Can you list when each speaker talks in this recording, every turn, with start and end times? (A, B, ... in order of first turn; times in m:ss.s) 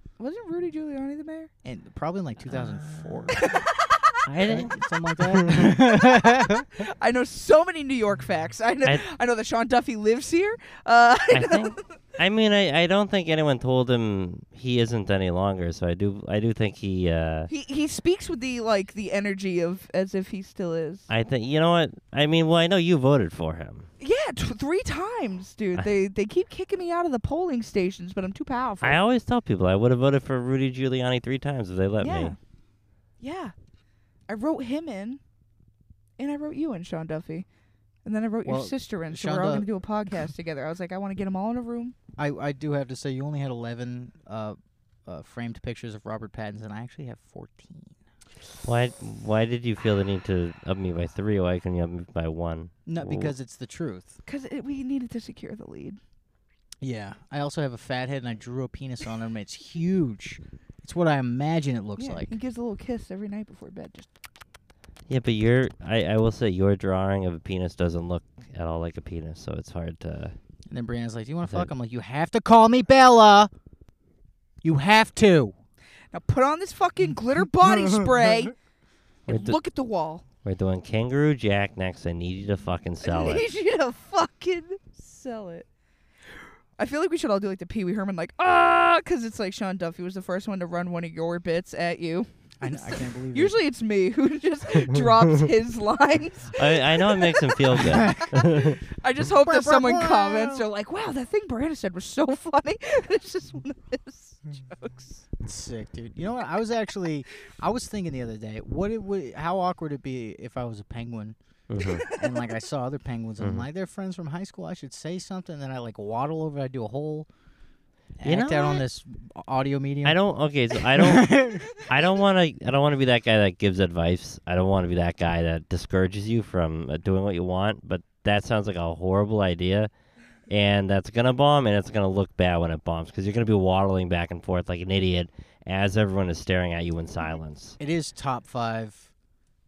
0:00.2-0:01.5 A
0:01.6-0:03.4 B
0:02.5-0:03.4 C
0:03.3-0:04.2 A
0:04.3-0:05.8 C
0:04.4-0:06.7 B
0:06.1-0:11.8 A
0:11.3-0:17.5 C
0:17.5-0:21.1 A
0:21.1-0:23.9 C
0:24.0-0:29.0 A
0:28.8-0:32.4 C
0:32.0-0:32.4 A
0:33.2-0:33.5 A
0:34.3-0:35.2 A
0:36.2-0:37.5 A
0:38.0-0:42.0 A
0:38.5-0:39.7 B
0:42.2-0:48.0 B
0:48.6-0:53.3 C
0:52.9-0:54.2 B
0:54.3-0:56.0 A
0:56.8-1:02.4 B
1:02.0-1:04.1 A
1:05.1-1:10.4 C
1:10.7-1:13.5 B
1:11.4-1:11.7 C
1:14.6-1:15.5 B
1:16.1-1:18.6 A
1:17.6-1:18.3 B
1:19.3-1:19.6 C
1:19.3-1:20.2 A
1:20.4-1:23.5 C
1:23.0-1:25.7 A
1:26.8-1:45.2 A
1:32.6-1:33.6 B
1:36.5-1:38.8 C
1:37.8-1:38.4 B
1:39.2-1:40.7 B
1:45.4-1:51.4 B
1:51.7-1:52.0 C
1:51.8-1:52.4 A
1:52.0-1:57.3 B
1:53.4-1:53.7 C
1:58.2-2:00.2 B
1:58.2-1:58.8 C
2:00.0-2:09.9 C
2:00.9-2:01.7 B
2:10.5-2:17.8 C
2:17.8-2:19.1 B